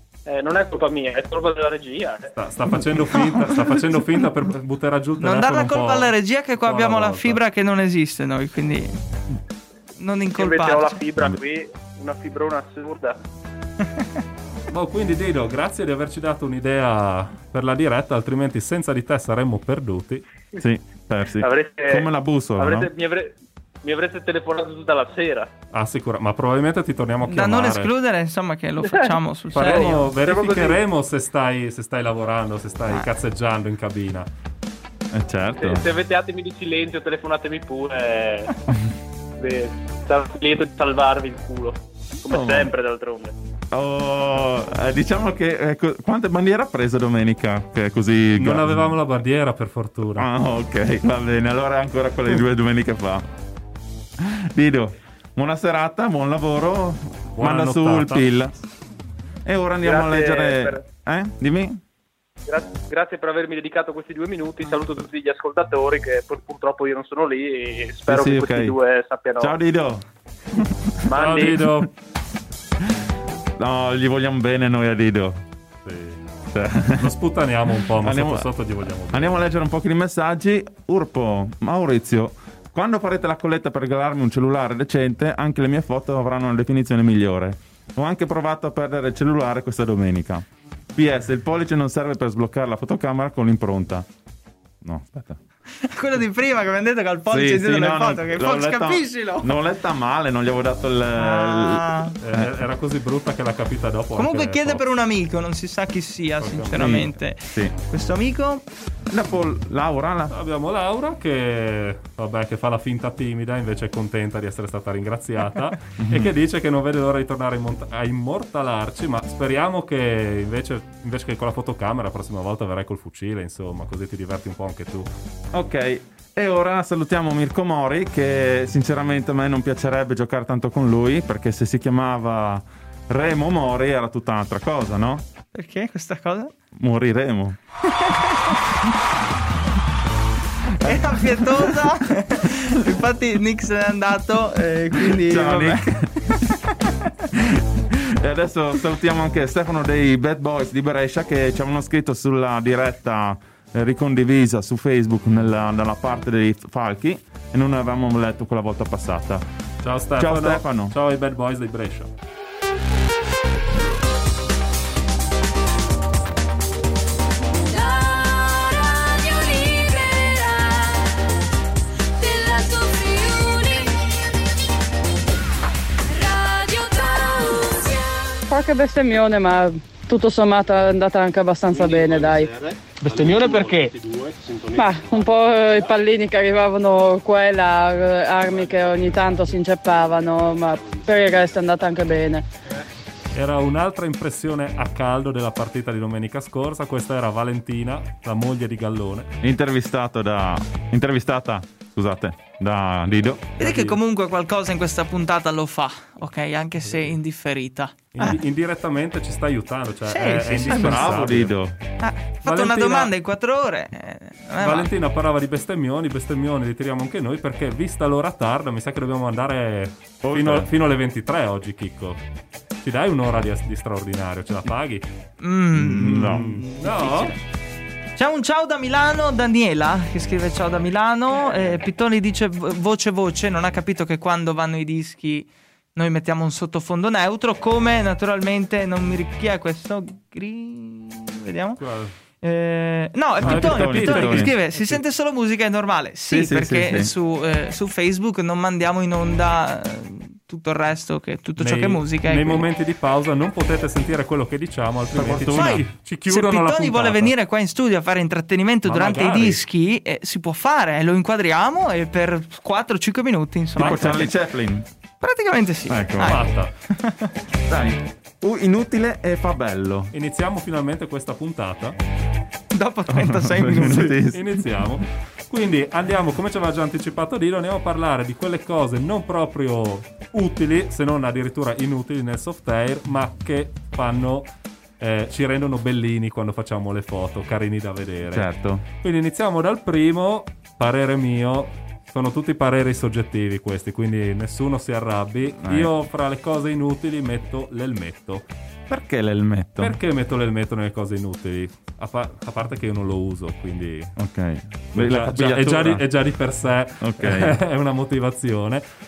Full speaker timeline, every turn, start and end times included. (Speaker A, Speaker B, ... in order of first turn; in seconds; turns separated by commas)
Speaker A: 0.2-2.3, Speaker B: 2.3-7.4, Speaker C: 5.2-8.9, Speaker C: 10.0-11.0, Speaker A: 10.3-13.2, Speaker B: 14.7-20.2, Speaker D: 20.6-22.9, Speaker A: 21.4-25.5, Speaker B: 25.7-27.9, Speaker C: 27.2-30.1, Speaker A: 28.9-30.8, Speaker B: 29.5-34.3, Speaker D: 35.1-35.9, Speaker A: 35.6-38.5, Speaker A: 39.4-43.3, Speaker D: 42.3-42.7, Speaker D: 43.7-49.0, Speaker B: 48.4-50.3, Speaker D: 50.1-53.3, Speaker D: 54.2-58.6, Speaker B: 57.3-58.2, Speaker D: 59.4-61.8, Speaker A: 59.8-60.8, Speaker A: 62.5-69.5, Speaker D: 68.1-68.8, Speaker D: 69.4-71.0, Speaker A: 71.1-71.6, Speaker B: 71.1-71.9, Speaker D: 73.6-75.4, Speaker B: 75.8-76.2, Speaker D: 76.5-77.1, Speaker B: 77.0-79.4, Speaker D: 78.0-78.5, Speaker D: 79.1-94.1, Speaker D: 94.8-95.4, Speaker C: 95.8-99.5, Speaker D: 97.3-102.5, Speaker C: 101.2-102.2, Speaker B: 102.2-104.8, Speaker C: 104.2-108.6, Speaker B: 106.4-106.9, Speaker D: 106.7-107.7, Speaker D: 109.1-110.3, Speaker B: 110.3-125.1, Speaker D: 116.0-116.3, Speaker D: 125.5-135.2, Speaker C: 135.5-136.5, Speaker D: 136.7-137.6, Speaker C: 137.9-138.6, Speaker D: 140.8-141.9, Speaker C: 140.8-146.4, Speaker D: 145.0-146.1, Speaker D: 147.3-159.4, Speaker B: 159.8-162.1, Speaker D: 160.2-160.9, Speaker E: 167.6-171.1, Speaker E: 172.2-174.1, Speaker E: 176.1-178.0, Speaker F: 178.5-182.6, Speaker A: 183.0-184.1, Speaker F: 184.7-192.4, Speaker B: 193.3-199.3, Speaker D: 199.4-203.6, Speaker B: 203.6-204.0, Speaker C: 203.6-207.9, Speaker B: 206.9-207.2, Speaker B: 208.1-211.5, Speaker C: 210.1-211.0, Speaker D: 210.6-211.8, Speaker C: 212.0-214.9, Speaker B: 212.4-213.1, Speaker B: 214.6-222.2, Speaker D: 220.2-220.7, Speaker B: 222.8-225.0, Speaker C: 225.4-227.4, Speaker D: 225.7-226.5, Speaker B: 225.9-227.3, Speaker C: 228.2-241.8, Speaker B: 241.8-242.1, Speaker C: 242.4-252.7, Speaker D: 243.4-244.5, Speaker B: 243.4-245.0, Speaker D: 246.3-247.1, Speaker B: 251.6-257.3, Speaker D: 255.1-255.8, Speaker C: 255.5-264.3, Speaker B: 258.8-259.6, Speaker D: 263.8-264.9, Speaker C: 265.2-267.2, Speaker D: 265.9-266.4, Speaker B: 266.2-266.7, Speaker D: 267.7-270.1, Speaker B: 270.1-272.0, Speaker C: 272.7-274.2, Speaker D: 273.1-274.8, Speaker B: 274.3-284.5, Speaker B: 285.0-298.5, Speaker D: 288.3-288.8, Speaker D: 295.6-295.9, Speaker D: 298.9-300.0, Speaker B: 299.8-304.1, Speaker D: 304.2-306.1, Speaker B: 304.9-308.8, Speaker D: 307.0-307.6